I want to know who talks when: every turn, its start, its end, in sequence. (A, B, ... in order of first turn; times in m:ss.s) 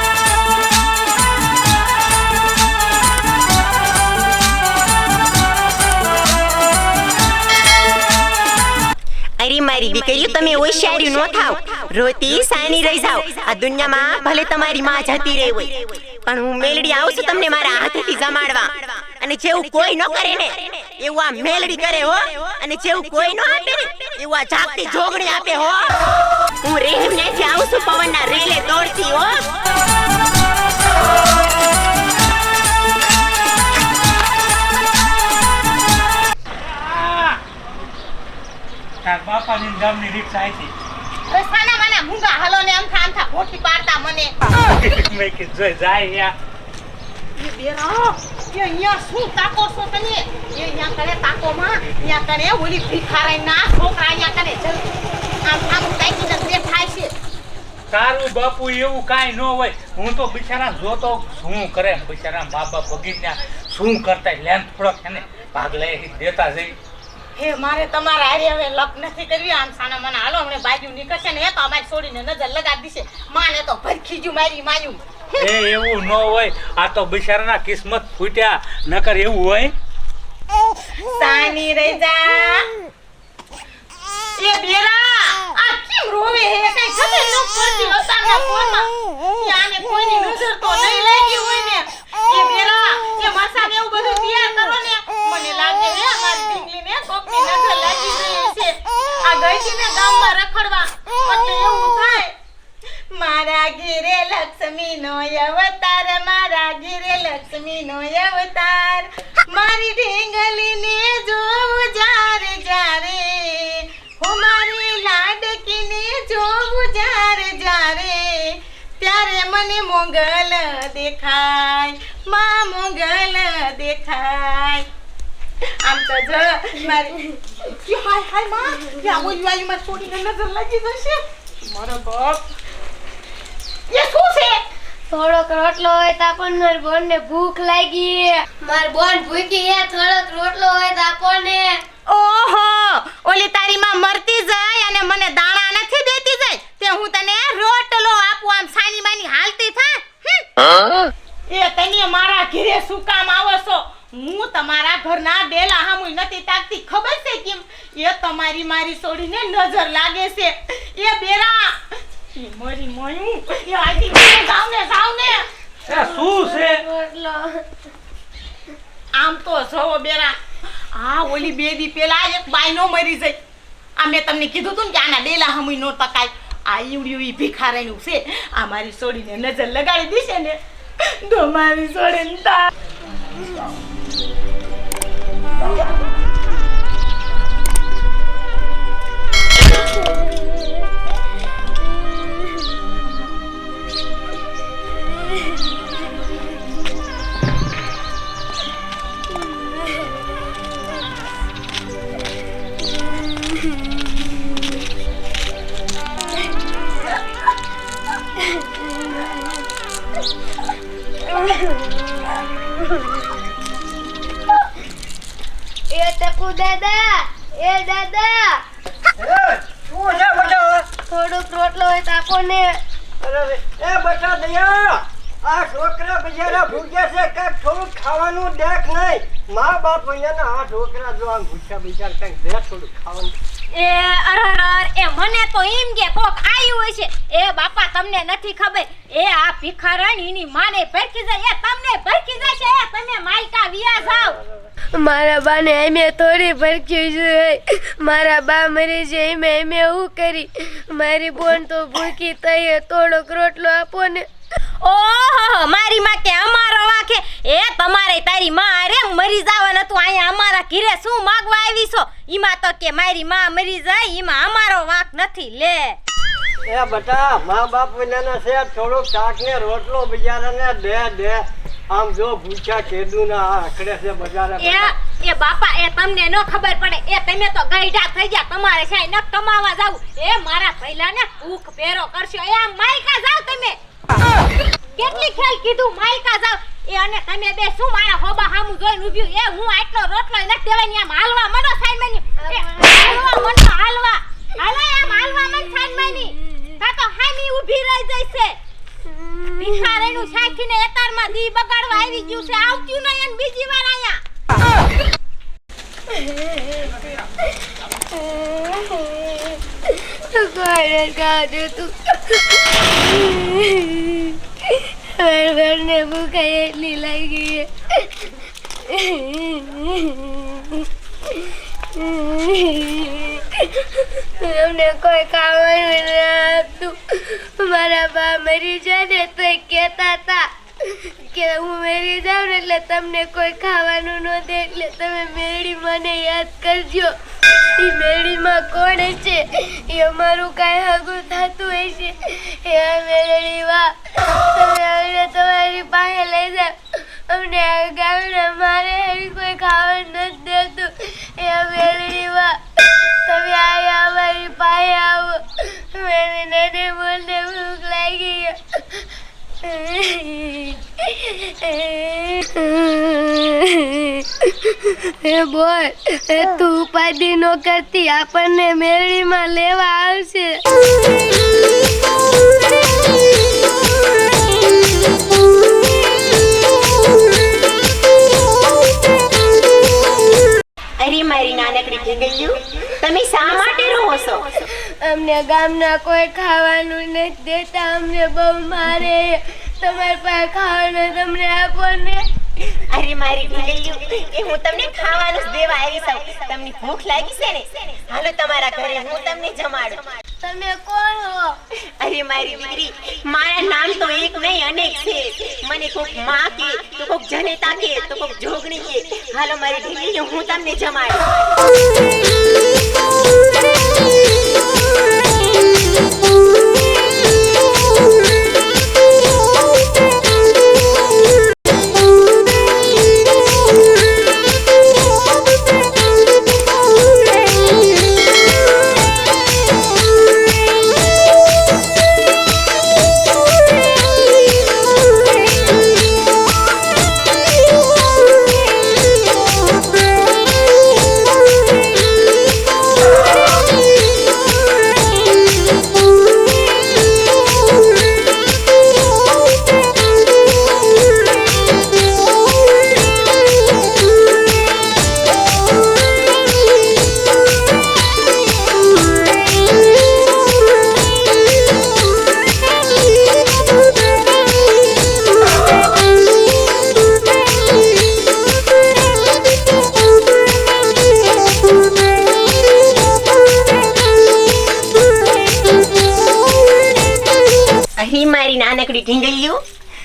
0:09.4-0:26.0 A
0:26.6-0:29.5 A
0:36.8-0:37.4 B
0:39.0-0:40.7 B
0:41.3-0:44.3 C
0:44.8-0:46.3 B
0:47.4-0:54.8 C
0:55.4-0:57.1 C
0:57.9-1:06.8 B
1:07.4-1:15.5 C
1:15.4-1:19.7 B
1:21.2-1:22.7 C
1:24.4-1:42.4 C
1:43.1-2:04.9 C
2:05.8-2:07.2 C
2:07.7-2:12.4 C
2:13.9-2:14.6 C
2:15.1-2:21.8 D
2:22.1-2:30.5 C
2:31.5-2:41.8 C
2:42.3-2:45.5 C
2:45.9-2:46.8 B
2:45.9-2:47.6 D
2:49.2-2:50.4 C
2:50.9-2:53.4 C
2:54.0-3:02.7 C
3:10.0-3:10.7 D
3:11.8-3:12.6 D
3:19.4-3:20.2 D
3:23.2-3:24.4 D
3:28.4-3:29.5 D
3:31.2-3:33.2 D
3:35.9-3:38.6 D
3:39.2-3:40.9 E
3:41.1-3:42.8 D
3:43.2-3:53.4 E
3:53.7-4:04.4 F
4:05.0-4:14.3 D
4:14.8-4:26.0 F
4:26.7-4:34.9 E
4:34.6-4:43.8 F
4:45.0-4:58.6 F
4:52.4-4:53.6 D
4:59.6-5:00.0 D
4:59.6-5:04.2 F
5:06.1-5:07.3 D
5:08.0-5:18.3 D
5:18.9-5:59.0 D
5:59.6-6:10.6 D
6:21.0-6:24.6 A
6:25.0-6:32.2 D
6:32.7-6:40.1 A
6:40.4-6:41.6 D
6:42.0-6:51.4 A
7:58.0-7:59.6 A